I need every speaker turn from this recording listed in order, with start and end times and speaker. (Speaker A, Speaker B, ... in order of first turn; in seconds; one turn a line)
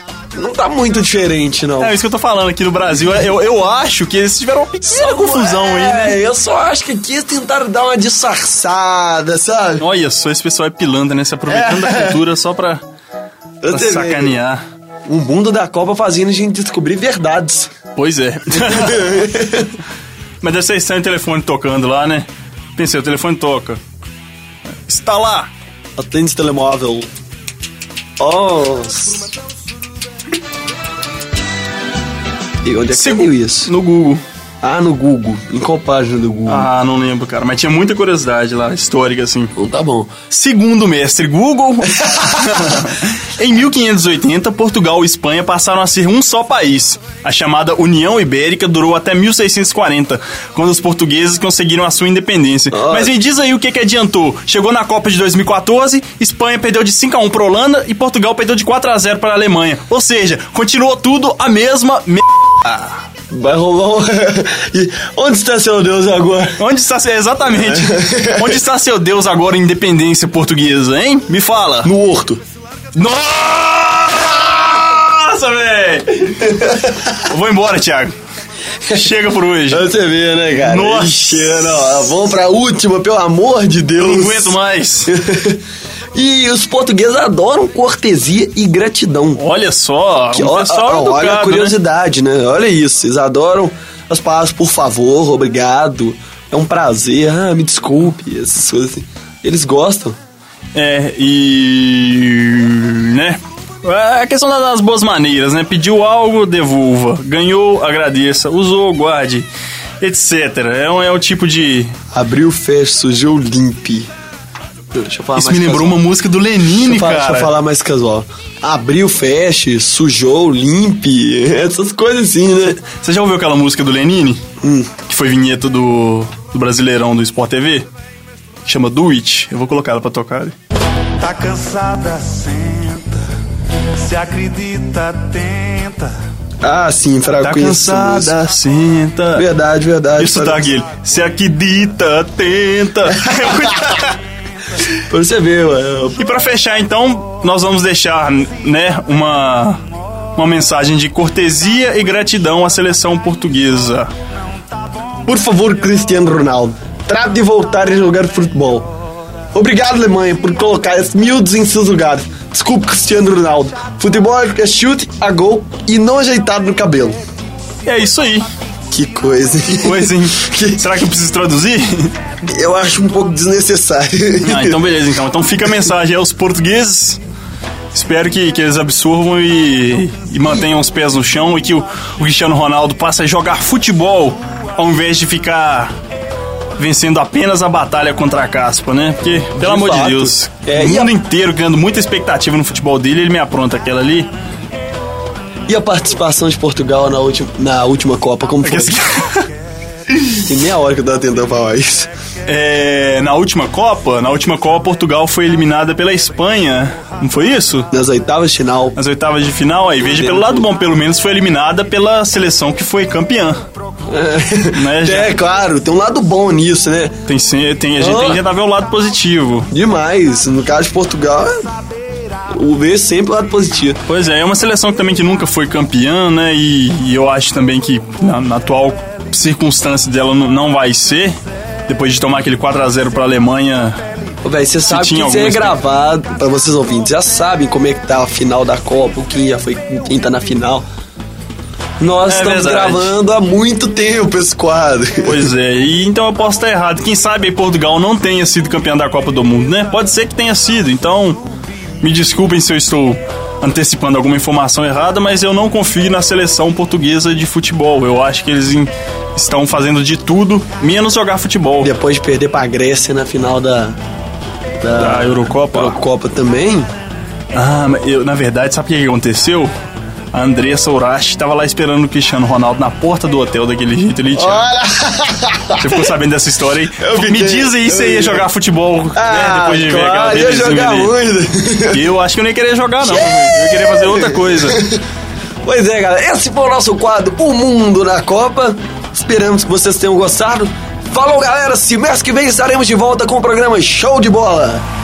Speaker A: 0.3-2.0
Speaker B: 1.8-6.2
Speaker A: 4.9-9.8
Speaker B: 9.8-12.8
Speaker A: 11.5-12.2
Speaker A: 13.6-14.4
Speaker B: 13.7-14.6
Speaker A: 15.1-17.7
Speaker B: 18.0-19.3
Speaker A: 18.6-19.8
Speaker B: 20.4-23.8
Speaker B: 24.9-25.5
Speaker A: 26.0-27.1
Speaker A: 28.2-29.3
Speaker A: 32.6-33.7
Speaker B: 32.9-34.2
Speaker A: 34.6-36.7
Speaker B: 36.5-39.5
Speaker A: 39.6-40.1
Speaker B: 40.3-63.0
Speaker A: 42.0-42.3
Speaker A: 52.7-53.1
Speaker A: 63.3-66.6
Speaker B: 66.6-71.9
Speaker A: 67.5-68.6
Speaker A: 71.8-72.4
Speaker B: 73.0-78.2
Speaker A: 76.5-77.1
Speaker B: 78.9-79.9
Speaker A: 79.7-85.6
Speaker B: 80.5-82.1
Speaker B: 84.0-85.1
Speaker A: 86.1-89.4
Speaker B: 89.4-91.8
Speaker A: 90.3-100.2
Speaker B: 100.7-109.5
Speaker B: 110.0-111.9
Speaker A: 112.1-114.1
Speaker A: 114.9-116.0
Speaker B: 115.3-117.5
Speaker A: 116.8-122.8
Speaker B: 122.7-124.4
Speaker A: 124.6-124.9
Speaker B: 125.0-127.9
Speaker B: 128.6-130.6
Speaker C: 131.2-133.0
Speaker C: 134.1-136.1
Speaker A: 136.6-138.4
Speaker B: 137.4-139.5
Speaker A: 139.3-140.7
Speaker B: 140.2-144.2
Speaker A: 145.0-146.2
Speaker B: 146.2-149.8
Speaker B: 150.3-154.1
Speaker A: 155.3-158.9
Speaker A: 159.5-167.2
Speaker B: 167.8-168.5
Speaker A: 168.9-170.9
Speaker B: 169.7-172.2
Speaker A: 172.4-174.8
Speaker B: 174.4-177.2
Speaker B: 177.9-185.9
Speaker B: 186.8-194.3
Speaker A: 189.6-191.1
Speaker A: 195.7-199.0
Speaker B: 198.6-199.5
Speaker A: 200.4-202.1
Speaker B: 202.5-207.9
Speaker A: 207.9-209.0
Speaker B: 209.0-213.6
Speaker A: 210.0-210.7
Speaker A: 214.1-217.2
Speaker B: 214.7-215.4
Speaker B: 217.3-219.7
Speaker A: 218.0-218.4
Speaker A: 219.7-221.5
Speaker A: 222.5-224.0
Speaker B: 224.1-234.0
Speaker A: 234.4-240.9
Speaker B: 234.8-235.8
Speaker A: 242.0-245.5
Speaker B: 242.3-243.2
Speaker B: 245.2-251.4
Speaker B: 252.0-261.9
Speaker A: 261.8-264.0
Speaker A: 264.8-266.9
Speaker B: 265.0-266.0
Speaker B: 267.5-269.7
Speaker B: 270.3-274.7
Speaker A: 274.3-276.1
Speaker B: 275.8-281.1
Speaker A: 277.0-278.5
Speaker A: 279.1-282.0
Speaker B: 281.9-284.8
Speaker A: 283.0-285.0
Speaker A: 285.6-294.9